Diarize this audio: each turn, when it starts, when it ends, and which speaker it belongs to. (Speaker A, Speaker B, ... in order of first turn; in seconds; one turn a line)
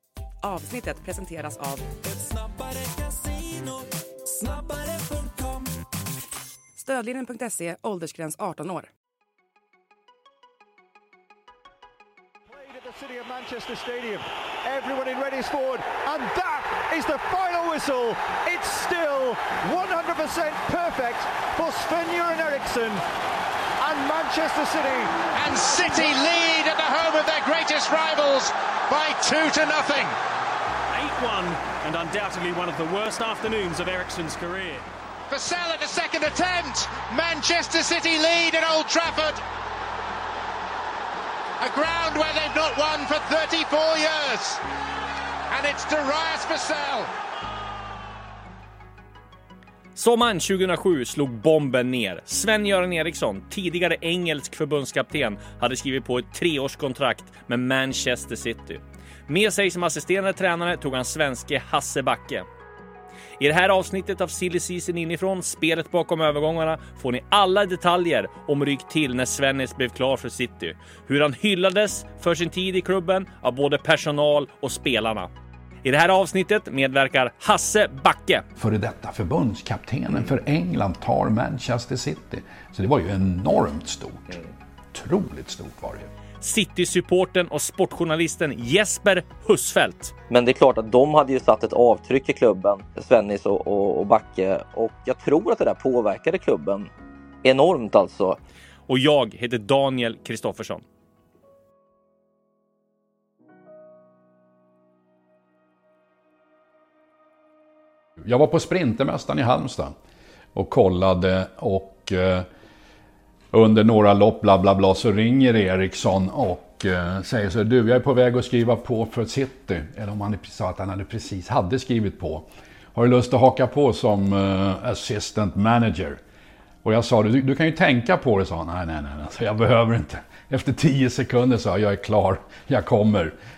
Speaker A: 0.4-1.9
Speaker A: 6.8-8.9
Speaker B: 12.5-23.0
Speaker B: 23.8-25.2
Speaker C: 25.3-30.1
Speaker D: 30.9-34.9
Speaker C: 35.3-39.4
Speaker C: 41.6-44.6
Speaker C: 45.5-47.1
Speaker E: 49.9-62.5
Speaker E: 63.4-75.3
Speaker E: 75.8-78.5
Speaker F: 78.6-84.4
Speaker F: 84.9-86.1
Speaker E: 86.4-90.1
Speaker G: 90.3-96.9
Speaker G: 97.4-98.4
Speaker E: 98.9-100.8
Speaker F: 108.2-109.9
Speaker F: 110.5-112.5
Speaker F: 113.5-126.2
Speaker F: 126.8-133.3